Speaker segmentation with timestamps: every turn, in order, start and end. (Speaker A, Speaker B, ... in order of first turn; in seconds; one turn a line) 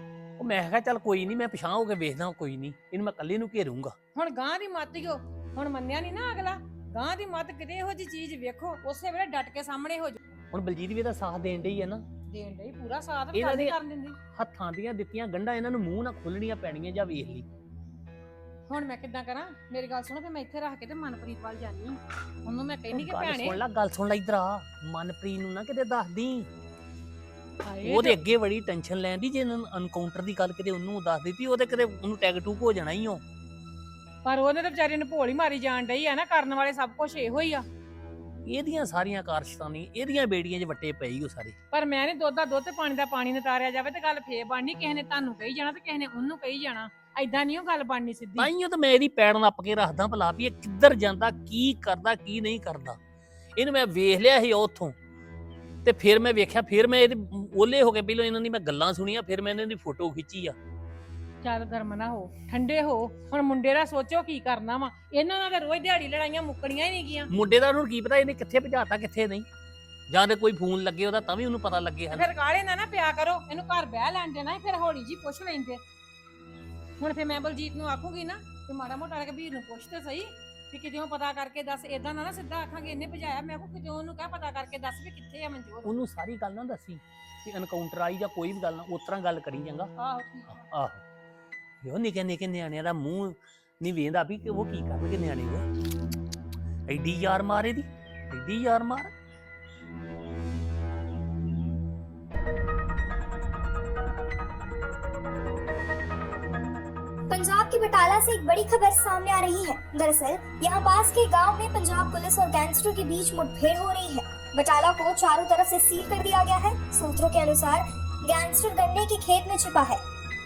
Speaker A: 0.4-3.9
Speaker B: 4.1-10.2
Speaker A: 10.5-12.0
Speaker B: 12.3-14.2
Speaker A: 13.3-13.8
Speaker A: 14.3-17.5
Speaker B: 18.7-23.6
Speaker A: 22.9-26.5
Speaker B: 27.6-28.2
Speaker A: 27.8-33.2
Speaker B: 34.2-37.6
Speaker A: 38.5-41.5
Speaker B: 41.7-48.5
Speaker A: 48.4-53.0
Speaker A: 53.6-55.0
Speaker A: 55.8-60.5
Speaker B: 61.4-67.3
Speaker A: 67.3-69.5
Speaker A: 70.1-72.3
Speaker B: 72.1-75.8
Speaker B: 77.0-85.9
Speaker A: 85.8-89.9
Speaker B: 90.0-90.6
Speaker A: 90.5-91.0
Speaker A: 91.8-95.6
Speaker A: 96.9-99.1
Speaker C: 107.3-120.0